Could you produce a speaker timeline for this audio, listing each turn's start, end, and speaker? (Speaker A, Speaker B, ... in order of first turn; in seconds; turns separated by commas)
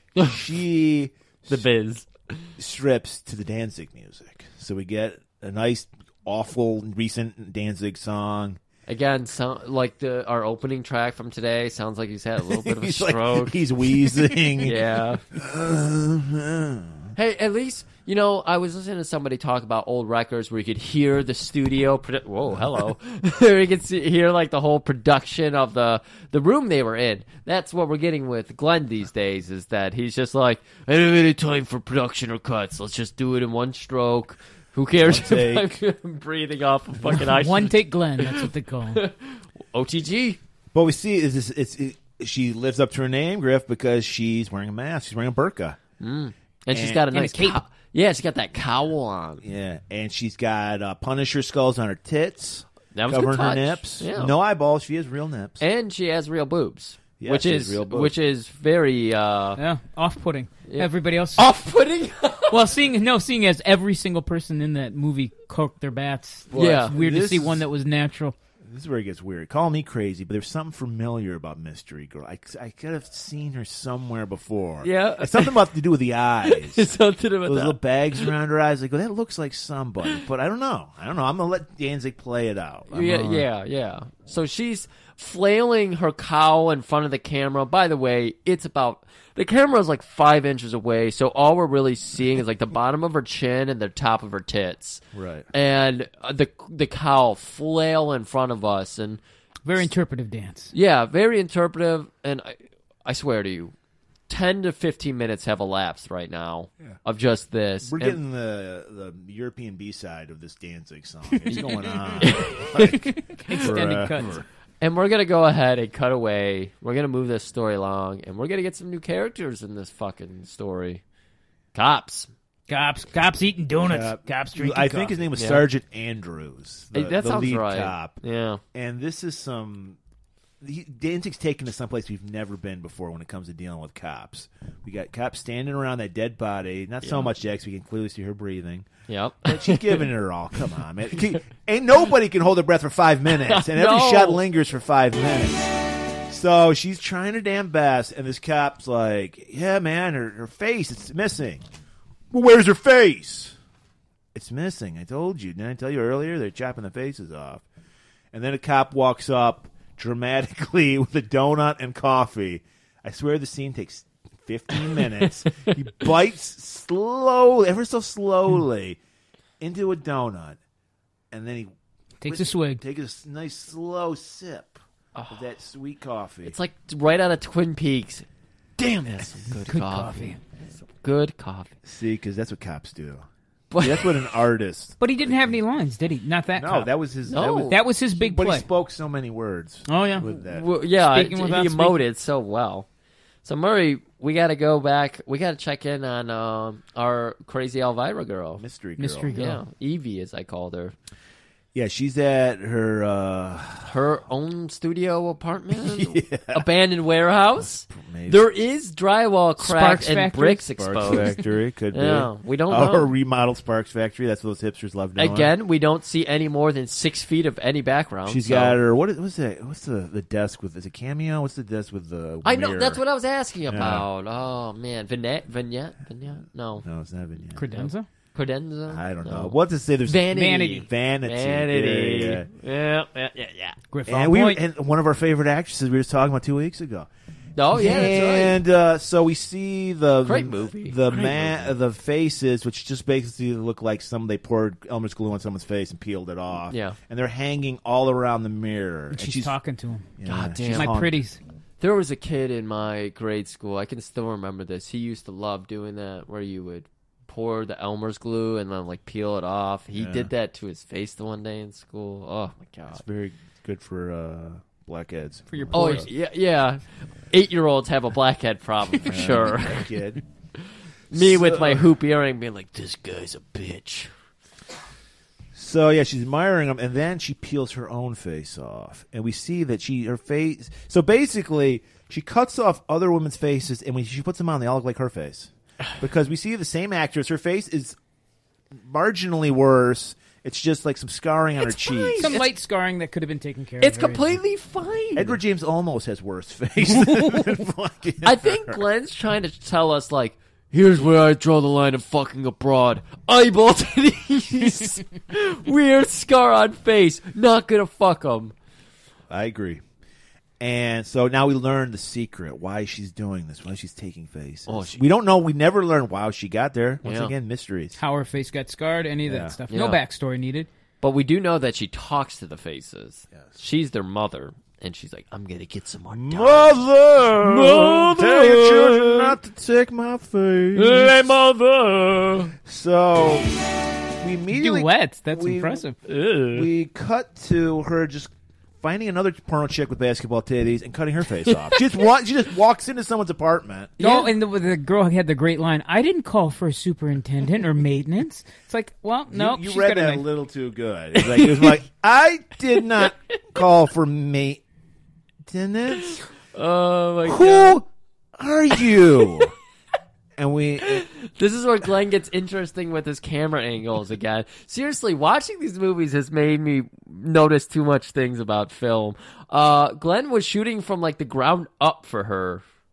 Speaker A: 0.2-1.6, Speaker B: 1.5-2.5, Speaker A: 2.6-8.6, Speaker B: 8.9-13.6, Speaker A: 12.4-17.1, Speaker B: 14.6-15.2, Speaker B: 17.1-40.4, Speaker A: 35.0-35.7, Speaker C: 37.1-39.0, Speaker A: 40.7-45.8, Speaker B: 46.0-49.4, Speaker A: 46.7-47.0, Speaker C: 47.1-47.6, Speaker A: 49.4-55.6, Speaker B: 52.9-54.4, Speaker B: 55.6-59.6, Speaker A: 57.2-58.1, Speaker C: 59.6-61.5, Speaker B: 60.7-62.6, Speaker C: 62.5-68.3, Speaker A: 66.5-67.6, Speaker B: 66.5-66.9, Speaker A: 68.6-76.9, Speaker B: 74.8-75.6, Speaker B: 76.4-78.3, Speaker A: 77.4-83.5, Speaker B: 82.9-99.2, Speaker A: 95.1-95.5, Speaker C: 99.7-100.7, Speaker B: 100.7-103.7, Speaker B: 104.3-108.2, Speaker A: 107.8-114.4, Speaker B: 112.2-113.7, Speaker C: 112.8-114.4, Speaker B: 114.8-121.0, Speaker B: 121.7-122.3, Speaker C: 122.7-125.2, Speaker A: 123.8-128.2, Speaker B: 125.3-125.6, Speaker B: 126.9-128.6, Speaker A: 128.7-130.0, Speaker A: 130.6-138.9, Speaker B: 137.0-137.3, Speaker B: 139.1-140.1, Speaker A: 139.4-145.7, Speaker B: 143.3-144.4, Speaker A: 146.3-151.6, Speaker A: 152.3-153.5, Speaker A: 154.3-157.6, Speaker A: 158.3-169.0, Speaker B: 165.0-165.8, Speaker A: 169.6-170.6, Speaker A: 171.3-171.7, Speaker C: 172.2-172.8, Speaker A: 172.2-176.6, Speaker B: 175.1-175.4, Speaker B: 176.4-178.2, Speaker B: 178.8-181.7, Speaker C: 179.7-180.4, Speaker A: 181.8-183.2, Speaker B: 183.7-184.3, Speaker A: 183.8-185.6, Speaker C: 185.0-186.9, Speaker A: 186.6-190.6, Speaker B: 187.3-187.8, Speaker C: 187.7-188.7, Speaker C: 189.9-190.3, Speaker B: 190.2-192.9, Speaker C: 190.9-192.0, Speaker B: 193.4-198.6, Speaker A: 198.6-199.3, Speaker C: 199.0-199.6, Speaker B: 199.3-200.9, Speaker A: 201.7-203.9, Speaker B: 203.8-211.3, Speaker A: 205.7-206.7, Speaker A: 207.6-208.5, Speaker C: 209.6-211.3, Speaker A: 210.8-215.5, Speaker B: 211.9-213.1, Speaker B: 215.2-218.8, Speaker A: 218.2-223.0, Speaker B: 222.4-226.8, Speaker A: 223.7-224.1, Speaker A: 226.8-227.7, Speaker C: 227.6-228.1, Speaker B: 227.7-233.8, Speaker A: 228.9-232.5, Speaker C: 230.3-230.8, Speaker C: 233.9-234.6, Speaker A: 234.1-237.1, Speaker B: 237.6-238.6, Speaker A: 237.7-249.5, Speaker B: 240.2-241.7, Speaker B: 246.7-247.0, Speaker C: 249.1-250.1, Speaker A: 250.2-251.2, Speaker B: 250.2-250.9, Speaker C: 250.7-251.4, Speaker B: 251.8-263.0, Speaker A: 259.9-260.3, Speaker A: 262.9-266.1, Speaker C: 265.5-266.1, Speaker B: 265.7-270.0, Speaker A: 269.0-270.2, Speaker B: 270.6-274.1, Speaker A: 271.1-271.9, Speaker A: 275.5-287.9, Speaker A: 288.7-292.3, Speaker B: 291.6-292.5, Speaker C: 292.2-294.4, Speaker B: 293.8-295.4, Speaker A: 295.1-298.8, Speaker C: 297.0-297.5, Speaker B: 298.2-308.5, Speaker A: 309.3-309.8, Speaker A: 310.6-318.0, Speaker B: 314.7-315.0, Speaker B: 317.0-317.3, Speaker C: 318.0-320.7, Speaker A: 319.2-319.6, Speaker B: 319.7-320.0, Speaker B: 321.0-326.8, Speaker A: 326.1-331.3, Speaker B: 327.4-329.3, Speaker B: 330.7-332.5, Speaker A: 332.6-333.5, Speaker A: 334.2-335.8, Speaker C: 334.5-335.9, Speaker B: 336.1-336.7, Speaker A: 336.5-344.0, Speaker B: 341.4-341.8, Speaker B: 344.0-344.3, Speaker C: 344.0-350.2, Speaker A: 349.3-354.6, Speaker B: 351.1-351.8, Speaker A: 355.4-356.2, Speaker B: 356.1-357.8, Speaker A: 357.2-359.5, Speaker B: 358.8-359.3, Speaker A: 360.4-361.0, Speaker B: 360.8-372.6